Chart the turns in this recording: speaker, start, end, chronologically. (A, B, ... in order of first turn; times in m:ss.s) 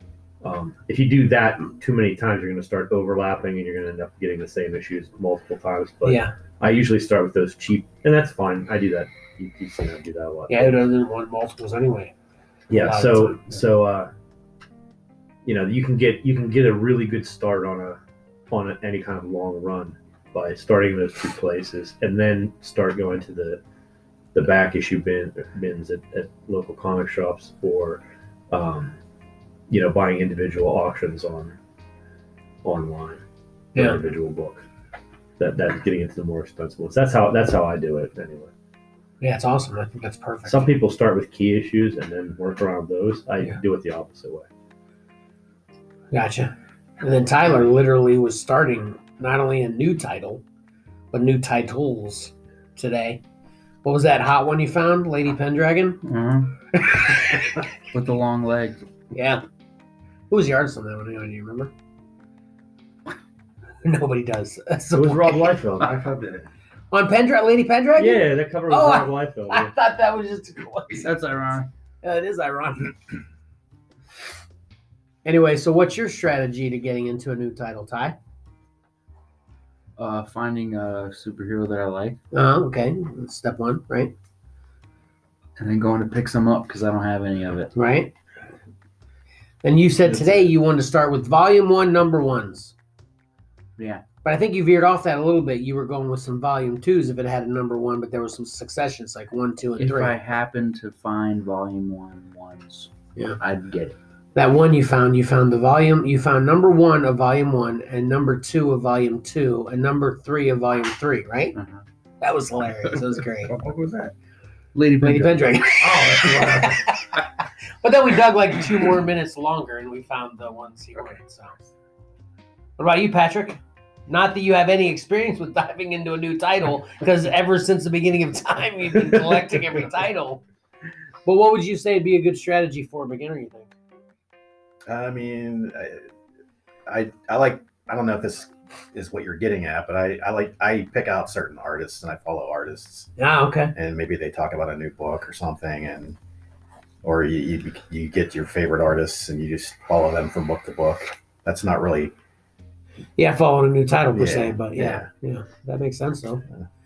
0:00.4-0:10.8 A
0:06.0-0:06.3 B
0:10.5-0:12.1 B
0:12.7-0:14.1 A
0:12.7-0:13.5 B
0:15.4-0:23.6 A
0:24.3-0:29.0 A
0:29.7-0:31.6 A
0:32.6-0:33.2 A
0:33.7-0:34.6 A
0:35.4-0:38.5 A
0:39.2-0:40.7 B
0:40.4-0:44.5 A
0:46.1-0:50.4 B
0:51.1-0:53.2 B
0:53.8-0:56.0 B
0:56.0-0:56.6 C
0:56.7-0:57.6 B
0:57.9-0:58.8 C
0:59.1-0:59.4 B
1:00.3-1:01.7 B
1:03.8-1:05.6 B
1:04.9-1:05.9 A
1:05.8-1:06.5 D
1:06.9-1:11.1 B
1:08.0-1:09.7 A
1:10.9-1:11.7 C
1:12.0-1:12.9 B
1:15.2-1:18.2 B
1:20.0-1:22.2 C
1:22.3-1:24.1 B
1:25.6-1:27.7 C
1:27.7-1:28.1 B
1:29.6-1:32.7 B
1:30.0-1:30.5 C
1:33.8-1:34.0 C
1:34.2-1:40.2 B
1:39.8-1:44.0 C
1:44.3-1:51.6 B
1:51.5-1:51.8 C
1:52.2-1:53.5 B
1:53.4-1:54.1 D
1:54.7-1:55.7 C
1:55.0-1:57.2 B
1:55.8-1:56.8 D
1:57.8-2:01.5 B
2:02.8-2:10.4 B
2:11.2-2:13.7 B
2:14.9-2:16.1 E
2:16.8-2:23.1 E
2:23.2-2:23.7 B
2:23.7-2:26.2 E
2:27.0-2:32.1 E
2:33.2-2:36.4 B
2:34.1-2:35.1 E